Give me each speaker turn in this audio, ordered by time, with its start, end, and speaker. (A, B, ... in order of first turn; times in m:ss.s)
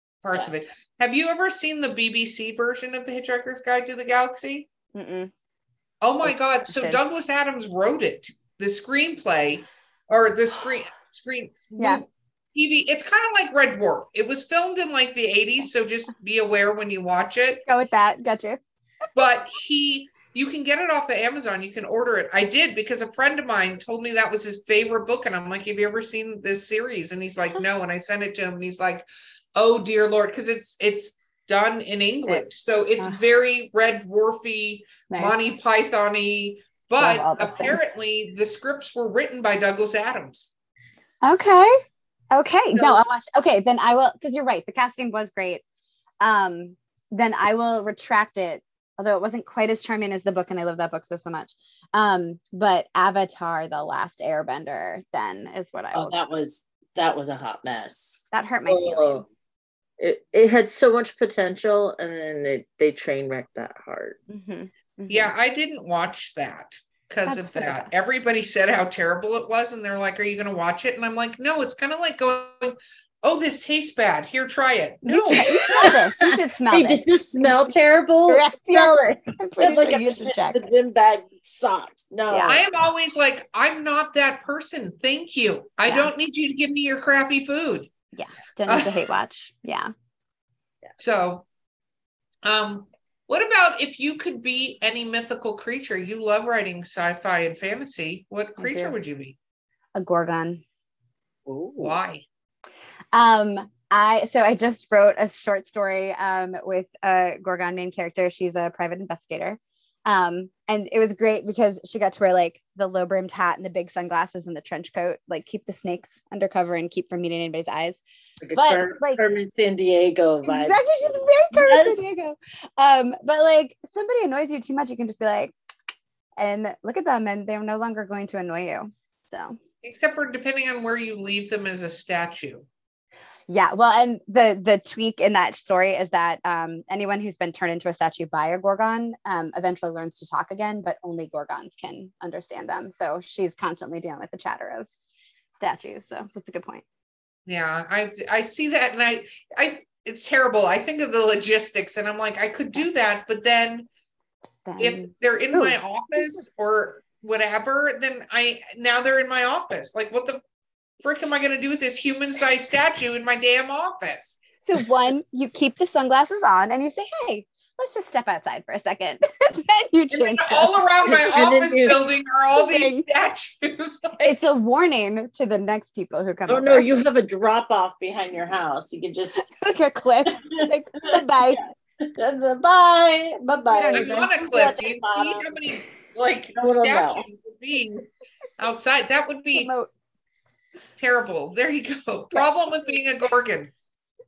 0:00.2-0:04.7 A
0:04.9-0:05.3 B
0:06.0-0:17.6 A
0:06.2-0:07.0 B
0:11.8-0:12.0 B
0:17.6-0:18.6 B
0:19.2-0:40.5 A
0:35.1-0:35.4 B
0:37.0-0:37.8 B
0:41.2-0:41.8 B
0:42.3-0:45.6 B
0:42.7-0:43.0 A
0:46.2-0:56.2 B
0:55.9-0:59.3 C
0:58.3-0:59.2 B
1:00.0-1:04.2 C
1:04.3-1:05.3 B
1:05.1-1:16.0 A
1:07.2-1:07.9 B
1:15.0-1:17.0 B
1:15.3-1:22.6 C
1:18.3-1:20.7 B
1:22.3-1:22.6 B
1:22.4-1:27.9 A
1:25.8-1:26.1 B
1:28.1-1:29.9 B
1:28.6-1:28.9 A
1:31.0-1:31.4 A
1:32.4-1:39.4 A
1:38.6-1:38.9 B
1:39.9-1:40.6 B
1:41.5-1:42.0 C
1:41.8-1:42.2 A
1:43.1-1:58.0 B
1:58.4-2:02.0 C
1:58.5-1:59.2 B
2:00.4-2:05.5 B
2:06.4-2:09.6 B
2:09.8-2:12.6 A
2:13.5-2:24.9 B
2:25.5-2:26.8 B
2:27.5-2:33.9 A
2:34.6-2:36.4 B
2:34.8-2:40.4 A
2:41.0-2:44.4 A
2:44.6-2:50.7 B
2:50.1-2:54.4 A
2:51.0-2:52.0 C
2:52.6-2:53.0 B
2:54.2-2:56.9 B
2:56.5-2:59.5 C
2:59.4-3:01.6 B
3:00.4-3:05.8 C
3:03.7-3:04.3 B
3:03.9-3:08.0 A
3:06.5-3:07.2 C
3:08.6-3:09.7 A
3:09.5-3:09.9 B
3:11.0-3:13.7 A